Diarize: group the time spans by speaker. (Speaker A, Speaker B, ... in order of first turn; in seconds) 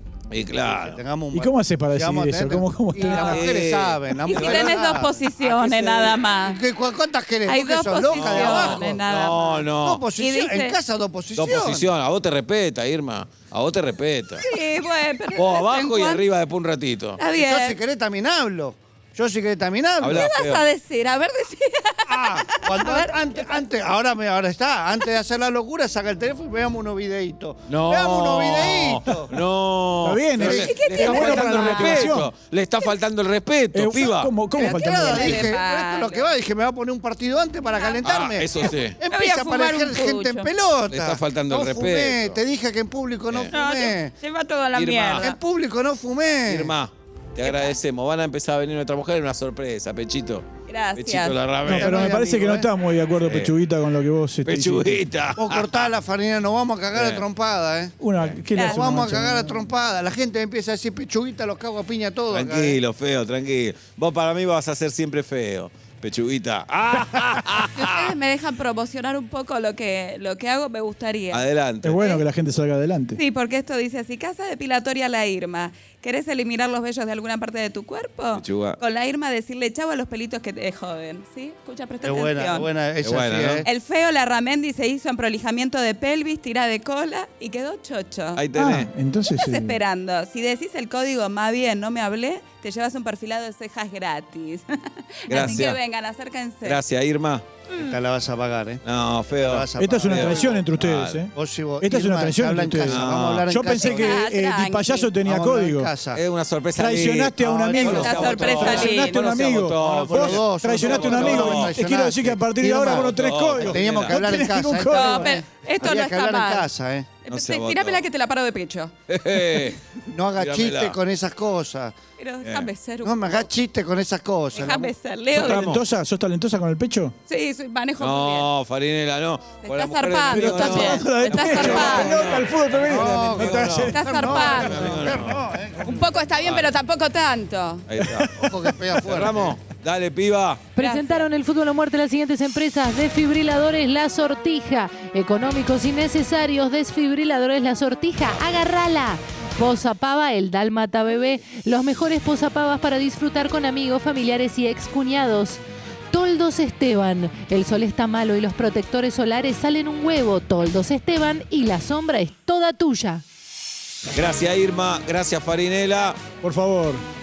Speaker A: 0.3-1.0, 3.0-6.2, 8.1-10.0, 11.3-14.4, 15.3-17.2, 20.0-20.6, 27.7-34.4, 38.0-39.0, 40.9-42.4, 44.7-45.2, 46.5-52.1, 53.2-53.5, 54.4-55.9, 56.9-57.2, 62.3-68.1, 71.3-72.0, 78.3-78.8, 83.0-83.7, 88.3-88.9, 95.3-95.8, 96.6-97.5, 98.8-101.3, 102.8-103.5, 106.1-111.7, 112.8-114.2, 117.3-118.0, 119.1-119.8, 120.3-121.0, 122.4-122.7, 125.3-125.8, 128.0-135.5, 136.4-136.7, 137.8-138.3, 139.0-140.7, 164.1-166.2
Speaker B: 0.6-5.2, 6.4-9.0, 9.8-11.8, 17.3-20.3, 22.1-29.3, 30.4-30.7, 34.6-44.1, 45.2-46.7, 51.7-52.7, 55.4-58.0, 58.5-62.8, 82.0-83.6, 97.7-100.7, 101.3-104.2, 105.2-106.2, 107.4-108.9, 109.7-117.1, 120.1-121.9, 123.0-124.9, 131.6-132.0, 132.8-136.2, 138.3-139.5
Speaker C: 1.3-3.5, 30.0-32.3, 33.7-35.5, 51.6-55.0, 58.0-59.7, 71.8-73.2, 88.5-89.8, 99.8-105.9, 106.7-115.3, 125.3-127.2, 130.3-134.5, 138.0-138.8, 166.4-167.0
Speaker D: 4.2-6.6, 7.4-10.8, 14.4-16.2, 17.2-17.8, 20.1-23.6, 30.4-32.2, 34.6-36.3, 37.6-40.5, 43.5-45.4, 47.4-47.8, 50.7-51.4, 58.5-58.8, 67.7-71.4, 73.2-82.7, 83.6-88.4, 89.3-96.8, 103.8-105.1, 107.7-109.2, 114.9-116.7, 117.2-119.7, 122.2-123.5, 124.5-125.8, 127.3-128.5, 129.6-132.1, 133.9-135.1, 135.8-137.9, 140.8-141.3
Speaker E: 140.7-155.6, 156.1-163.2